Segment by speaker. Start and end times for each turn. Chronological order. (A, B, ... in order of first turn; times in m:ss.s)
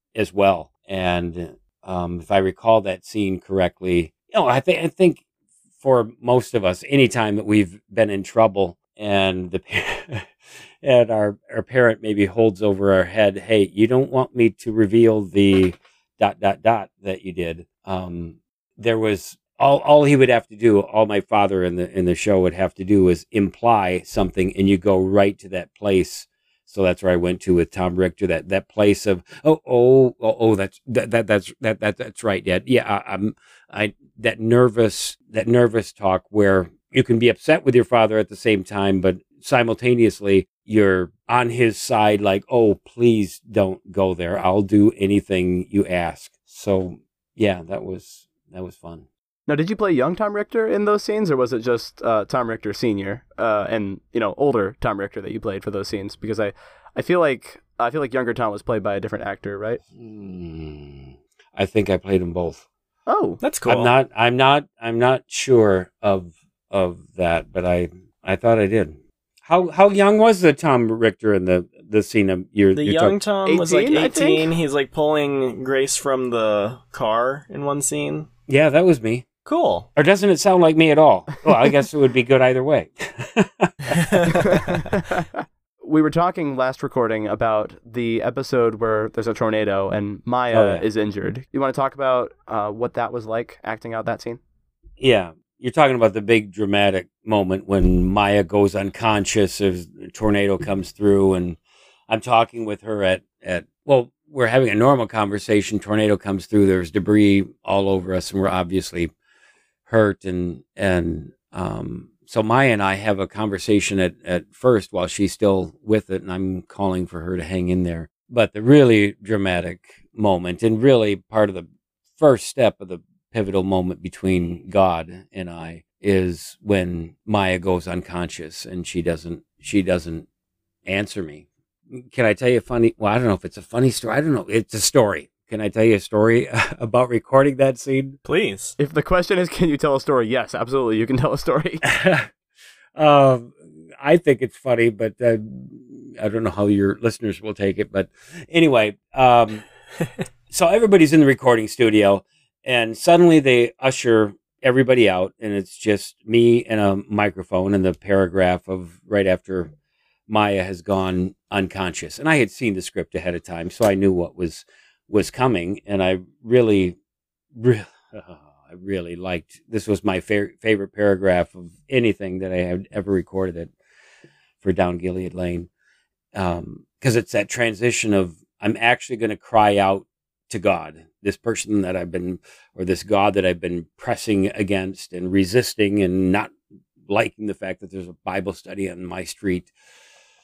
0:00.1-0:05.2 A
0:05.8-0:10.3 A
0:10.8-0:49.1 A
0:49.5-0:59.8 B
1:00.0-1:02.7 A
1:03.1-1:03.4 B
1:03.4-1:03.9 C
1:03.6-1:13.2 A
1:12.7-1:18.3 C
1:13.4-1:14.5 B
1:18.5-1:19.2 A
1:19.4-1:19.9 C
1:20.0-1:24.7 A
1:24.2-1:25.3 B
1:25.8-1:34.4 B
1:30.5-1:30.8 A
1:35.0-1:49.1 A
1:49.9-2:10.3 A
2:10.8-2:18.2 A
2:18.2-2:18.8 C
2:18.8-2:21.8 B
2:21.8-2:22.3 A
2:23.0-2:29.6 A
2:30.5-2:39.7 A
2:40.3-2:47.0 A
2:47.5-2:53.7 A
2:54.6-2:55.7 A
2:56.3-3:06.5 A
3:07.0-3:09.7 A